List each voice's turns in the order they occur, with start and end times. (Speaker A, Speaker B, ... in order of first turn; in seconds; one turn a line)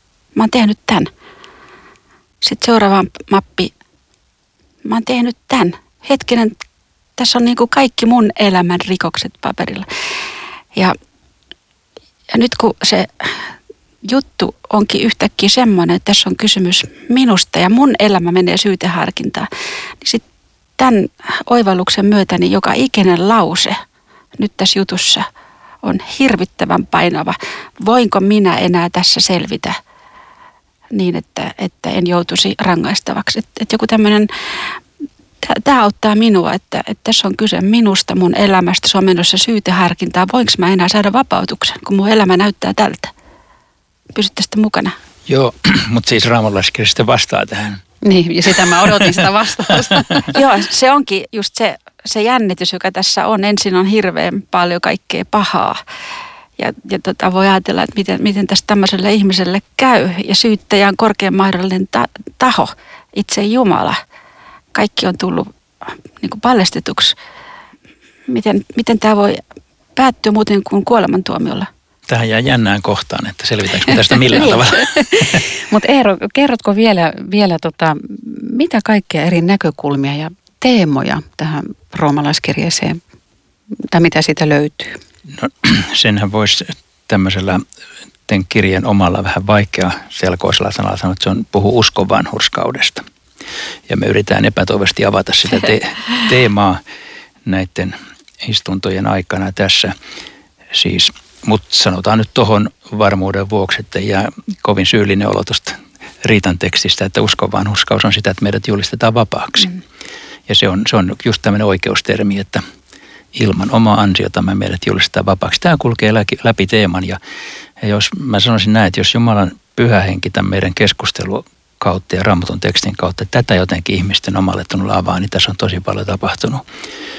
Speaker A: 0.3-1.1
Speaker A: 2.4-3.7
Speaker A: 4.8-6.5
Speaker A: 7.2-9.9
Speaker A: 12.3-13.4
Speaker A: 14.0-19.5
Speaker A: 20.8-23.8
Speaker A: 24.4-25.3
Speaker A: 25.8-29.8
Speaker A: 30.9-34.7
Speaker A: 35.4-43.1
Speaker A: 44.1-45.0
Speaker B: 45.3-47.8
Speaker C: 48.0-50.3
Speaker B: 48.5-49.2
Speaker B: 49.9-50.2
Speaker A: 50.3-55.8
Speaker A: 56.6-64.0
Speaker A: 64.7-67.2
Speaker A: 68.3-69.4
Speaker A: 70.0-71.7
Speaker B: 72.1-75.4
Speaker C: 74.8-83.0
Speaker C: 83.9-85.0
Speaker B: 85.3-87.6
Speaker B: 88.3-93.0
Speaker B: 93.9-96.8
Speaker B: 97.5-99.9
Speaker B: 100.7-109.8
Speaker B: 110.5-112.6
Speaker B: 113.3-117.2
Speaker B: 117.8-126.6